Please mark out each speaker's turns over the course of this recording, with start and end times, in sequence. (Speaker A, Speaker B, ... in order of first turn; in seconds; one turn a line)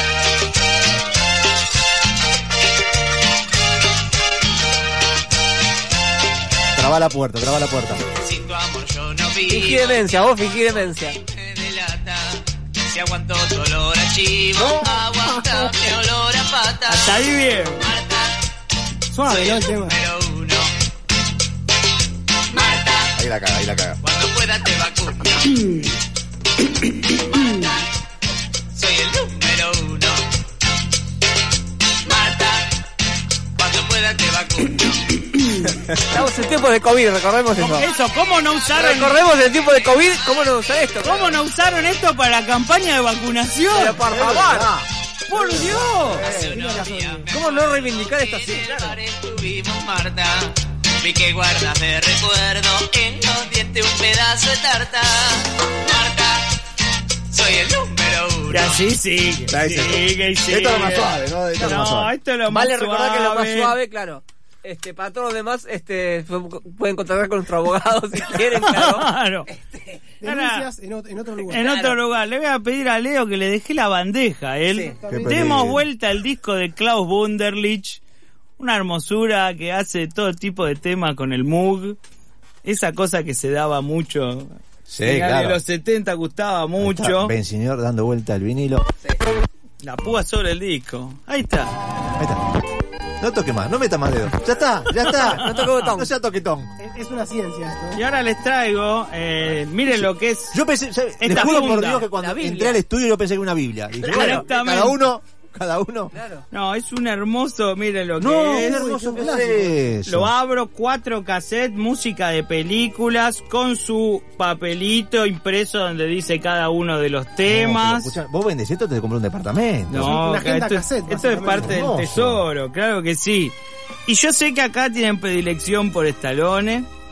Speaker A: 6.8-8.0
Speaker B: 8.1-17.2
Speaker C: 9.4-11.2
Speaker A: 14.6-14.9
Speaker D: 16.9-17.9
Speaker B: 17.8-18.3
Speaker E: 19.1-20.0
Speaker B: 19.2-20.7
Speaker B: 22.5-23.1
Speaker A: 23.1-24.0
Speaker B: 24.0-25.6
Speaker B: 27.3-27.6
Speaker B: 28.8-30.2
Speaker B: 32.1-32.6
Speaker B: 33.6-35.2
Speaker C: 36.0-37.9
Speaker D: 37.6-39.2
Speaker C: 38.7-41.3
Speaker D: 41.0-44.0
Speaker C: 43.7-44.7
Speaker A: 44.0-44.9
Speaker D: 45.3-46.3
Speaker E: 45.4-47.3
Speaker C: 46.1-46.7
Speaker B: 46.3-56.4
Speaker C: 47.2-49.0
Speaker B: 57.3-58.8
Speaker D: 58.5-63.8
Speaker A: 59.5-62.1
Speaker C: 62.5-70.0
Speaker D: 68.5-69.5
Speaker E: 70.2-71.6
Speaker D: 70.2-70.7
Speaker D: 71.5-78.0
Speaker C: 71.6-72.0
Speaker C: 74.7-75.0
Speaker E: 75.0-75.5
Speaker A: 75.1-75.8
Speaker D: 78.6-82.0
Speaker D: 82.6-87.3
Speaker A: 84.9-85.6
Speaker A: 86.8-88.8
Speaker D: 89.8-91.8
Speaker A: 93.2-96.7
Speaker C: 95.1-96.1
Speaker E: 96.8-98.0
Speaker D: 97.9-100.6
Speaker A: 99.9-106.1
Speaker D: 101.2-102.1
Speaker C: 101.3-102.8
Speaker D: 104.0-105.1
Speaker C: 104.1-104.5
Speaker C: 106.1-106.4
Speaker D: 106.5-108.8
Speaker A: 108.2-110.3
Speaker E: 108.6-109.7
Speaker D: 110.0-118.1
Speaker A: 117.4-120.2
Speaker D: 119.9-123.5
Speaker E: 120.0-121.8
Speaker A: 121.6-122.4
Speaker D: 124.0-126.9